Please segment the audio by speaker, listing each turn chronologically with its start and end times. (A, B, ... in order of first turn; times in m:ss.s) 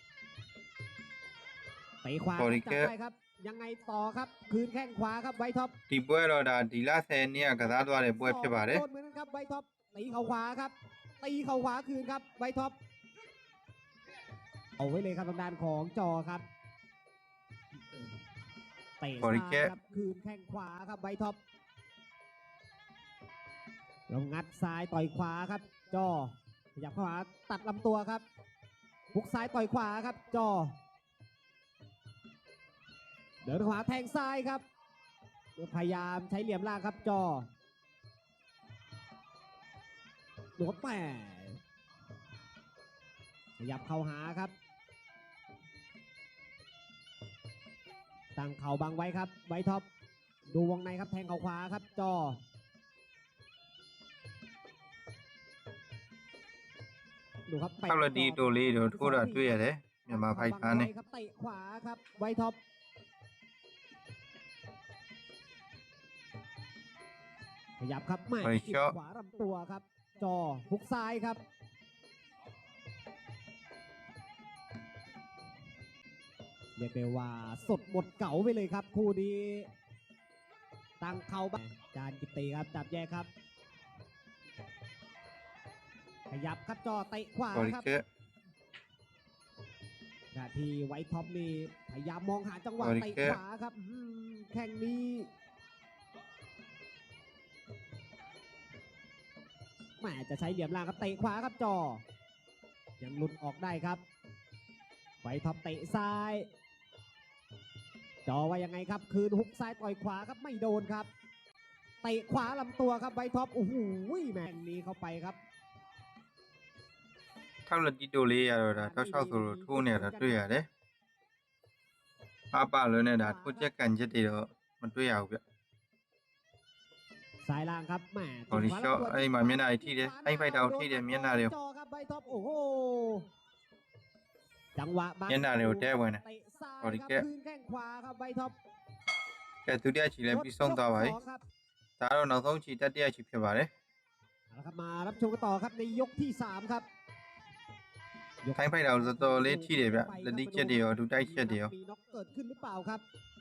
0:02.0-0:05.8 A
0:02.4-0:02.9 B
0:05.9-0:08.8 B
0:08.2-0:12.8 A
0:14.8-0:16.4 A
0:19.0-0:21.4 A
0:19.2-0:19.7 B
0:24.1-0:28.2 A
0:29.1-0:30.8 A
0:33.4-0:34.6 A
0:35.6-0:37.5 A
0:40.6-0:41.6 A
0:43.6-0:44.5 A
0:48.4-0:49.9 A
0:50.5-0:52.4 A
0:57.5-1:02.6 A
0:57.9-1:00.9 B
1:07.8-1:11.4 A
1:08.4-1:08.9 B
1:16.8-1:19.7 A
1:21.0-1:23.3 A
1:26.3-1:27.9 A
1:27.5-1:28.0 B
1:30.3-1:35.3 A
1:32.8-1:33.4 B
1:40.0-1:42.0 A
1:43.0-1:44.0 A
1:45.2-1:46.5 A
1:48.3-1:51.1 A
1:52.0-1:55.4 A
1:57.7-2:00.7 B
1:58.7-2:00.5 A
2:02.5-2:05.4 B
2:03.1-2:03.7 A
2:07.4-2:13.3 A
2:08.5-2:11.5 B
2:14.8-2:18.6 A
2:15.3-2:16.2 B
2:16.8-2:17.2 B
2:19.7-2:21.2 B
2:20.3-2:21.4 A
2:22.0-2:23.7 B
2:24.5-2:26.8 A
2:28.4-2:33.0 A
2:28.6-2:31.7 B